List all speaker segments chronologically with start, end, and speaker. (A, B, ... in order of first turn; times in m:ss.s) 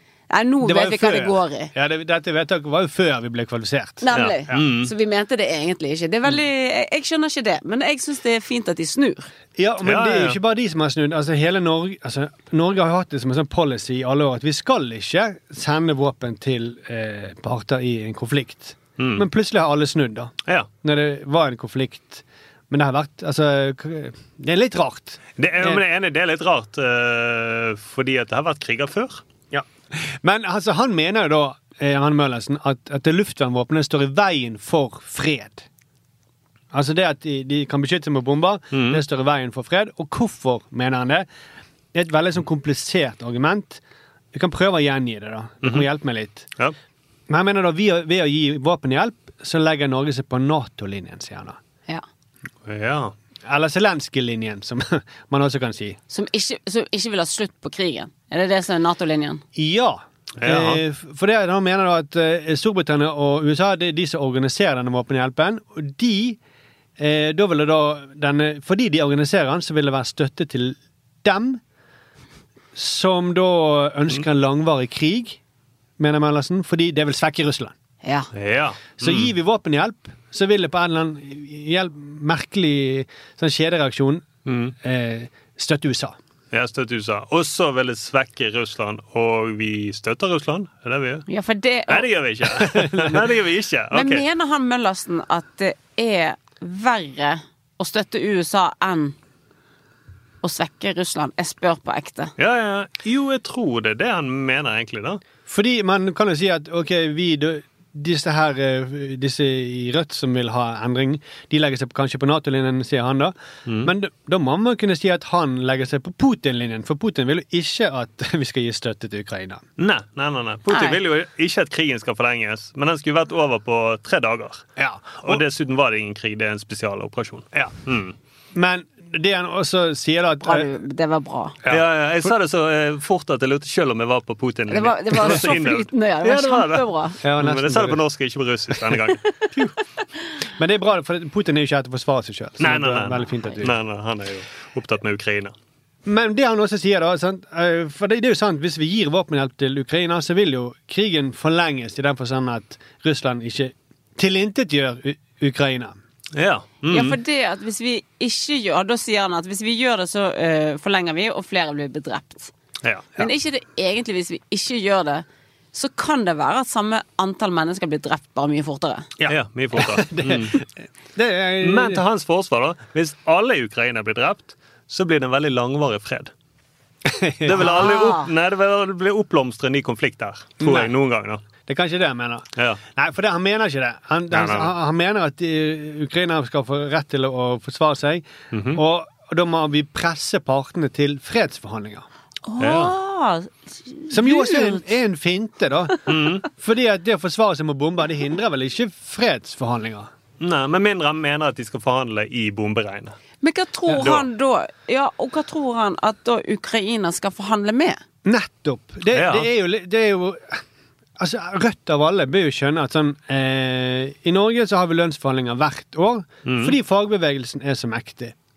0:00.3-0:01.7 A
0:00.6-0:04.6 B
0:04.0-0:09.3 A
0:04.1-0:04.9 C
0:09.6-0:25.8 B
0:09.8-0:10.4 C
0:19.0-0:19.2 C
0:25.4-0:29.2 C
0:29.5-0:35.6 B
0:36.7-0:41.3 B
0:38.7-0:39.0 C
0:41.9-0:43.8 B
0:44.3-0:46.5 B
0:47.3-0:51.6 B
0:52.6-0:53.1 C
0:53.4-0:56.0 B
0:56.1-0:59.4 A
0:59.5-1:06.4 B
1:00.4-1:00.8 C
1:07.0-1:11.6 B
1:12.7-1:15.4 B
1:16.0-1:17.7 B
1:18.0-1:18.3 A
1:18.3-1:19.3 C
1:19.0-1:24.3 B
1:24.4-1:24.7 C
1:24.8-1:26.2 B
1:26.5-1:31.2 C
1:31.3-1:32.1 A
1:31.9-1:34.2 C
1:32.6-1:33.2 B
1:33.9-1:39.1 A
1:40.4-1:42.3 A
1:42.4-1:45.2 C
1:45.5-1:59.6 B
1:53.7-1:53.9 C
1:59.8-2:04.6 C
2:00.7-2:01.0 A
2:04.8-2:05.4 B
2:05.2-2:08.1 C
2:08.5-2:10.7 B
2:10.4-2:11.6 A
2:11.6-2:12.3 B
2:11.7-2:19.2 C
2:14.7-2:17.2 A
2:17.2-2:18.0 B
2:20.6-2:23.7 B
2:22.6-2:25.5 C
2:26.0-2:36.0 B
2:36.3-2:37.2 C
2:36.9-2:42.5 A
2:42.8-2:43.1 C
2:43.2-2:49.1 A
2:49.2-2:52.0 B
2:49.3-2:50.6 C
2:51.6-2:56.3 C
2:57.0-2:57.9 B
2:57.4-3:01.4 C
2:57.6-2:58.3 A
3:00.6-3:00.9 B
3:01.7-3:12.0 B
3:04.3-3:04.7 C
3:08.5-3:08.8 C
3:12.5-3:14.8 A
3:12.6-3:12.9 C
3:14.1-3:20.1 B
3:16.1-3:16.4 C
3:20.4-3:23.2 C
3:23.4-3:28.0 A
3:24.0-3:24.3 C
3:28.2-3:30.6 B
3:29.1-3:29.5 C
3:31.2-3:38.3 B
3:36.4-3:36.7 C